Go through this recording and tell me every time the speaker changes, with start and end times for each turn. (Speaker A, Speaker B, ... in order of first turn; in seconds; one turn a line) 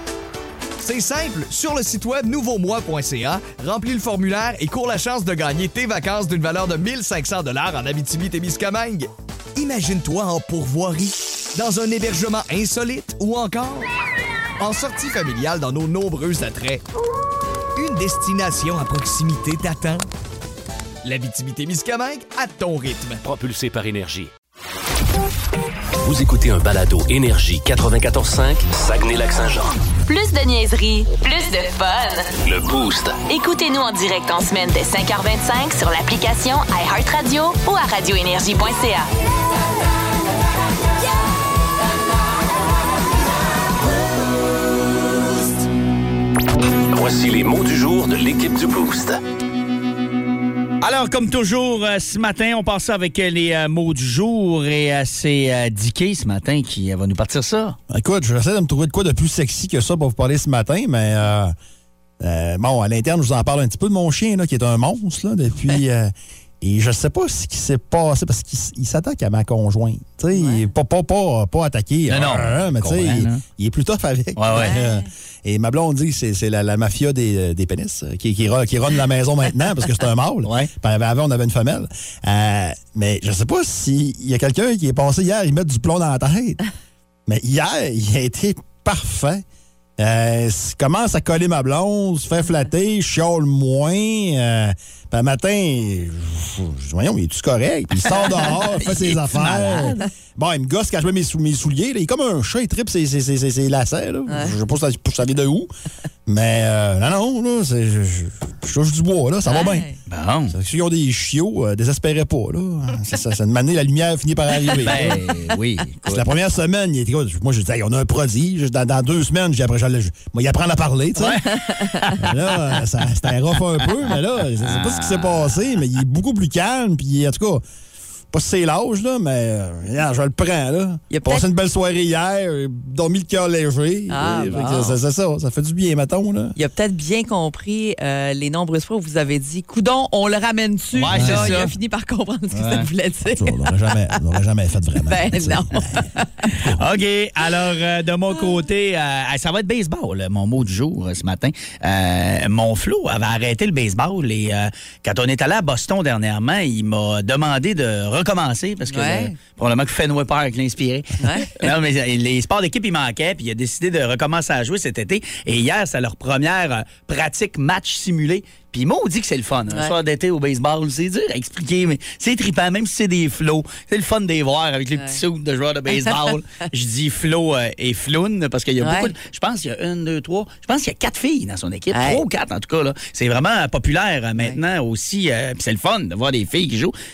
Speaker A: 0.8-13.9
Speaker A: 14.6-16.8
Speaker A: 17.8-20.1
Speaker A: 21.0-23.2
Speaker B: 23.2-24.3
Speaker B: 26.0-29.7
Speaker C: 30.1-32.3
Speaker B: 32.4-33.2
Speaker C: 33.3-39.1
Speaker B: 46.9-49.2
Speaker D: 50.8-57.8
Speaker E: 57.9-61.5
Speaker E: 62.2-86.6
Speaker F: 70.3-70.7
Speaker D: 72.1-73.4
Speaker D: 74.3-74.7
Speaker F: 74.5-75.0
Speaker D: 80.4-80.7
Speaker E: 87.2-89.4
Speaker E: 90.0-105.7
Speaker D: 98.8-99.9
Speaker F: 104.3-104.5
Speaker E: 106.2-109.9
Speaker F: 109.5-110.0
Speaker D: 110.1-110.5
Speaker E: 110.5-115.2
Speaker D: 114.8-116.2
Speaker E: 116.0-121.5
Speaker D: 121.2-122.3
Speaker F: 121.6-122.0
Speaker E: 122.2-127.6
Speaker D: 124.6-125.6
Speaker E: 128.3-136.5
Speaker F: 131.1-131.5
Speaker F: 134.1-135.0
Speaker F: 136.6-144.2
Speaker D: 140.9-141.7
Speaker E: 141.1-141.6
Speaker D: 142.5-142.9
Speaker E: 143.3-146.1
Speaker F: 145.1-146.5
Speaker D: 146.7-186.9
Speaker F: 158.9-159.3
Speaker F: 161.2-161.7
Speaker F: 178.8-179.1
Speaker F: 181.9-182.2